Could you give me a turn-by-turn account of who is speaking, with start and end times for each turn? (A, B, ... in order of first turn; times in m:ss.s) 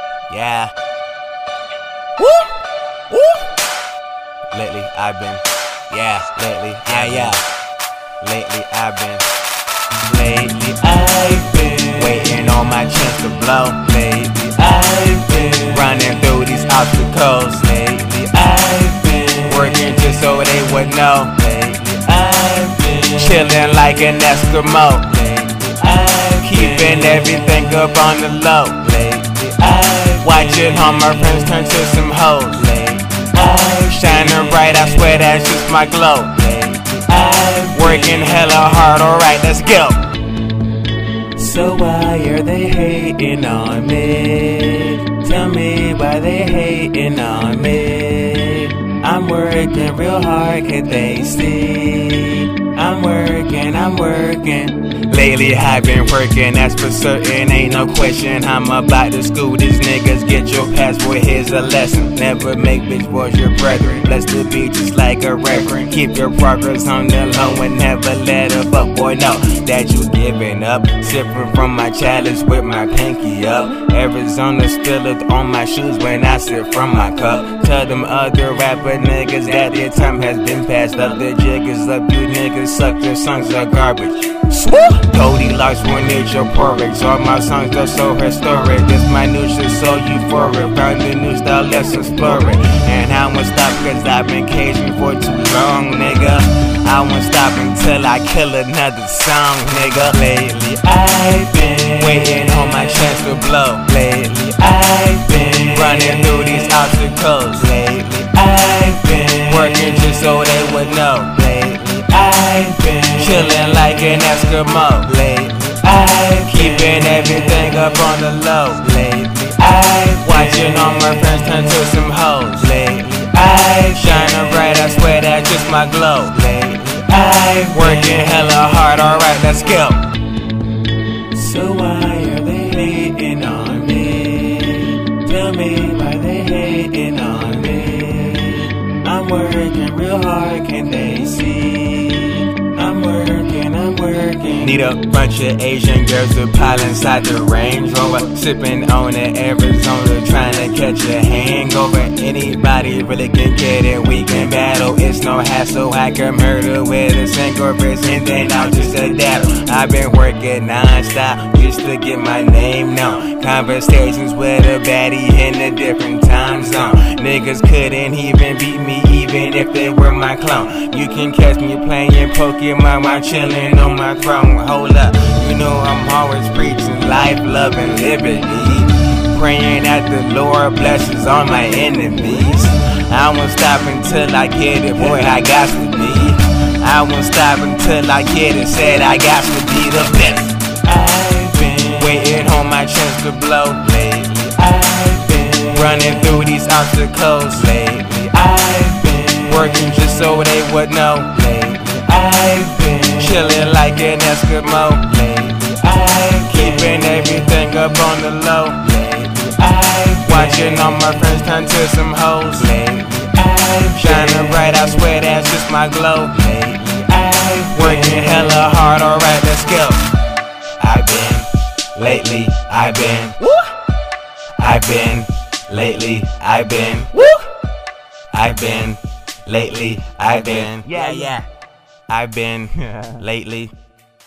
0:00.3-0:00.7 A
0:04.5-0:07.4 A
0:08.2-0:09.2 A
0:10.1-0:40.0 A
0:41.4-2:10.0 A
2:11.4-3:40.0 A
3:40.8-3:43.5 A
3:44.6-3:47.4 A
3:48.3-3:51.4 A
3:52.1-3:53.7 A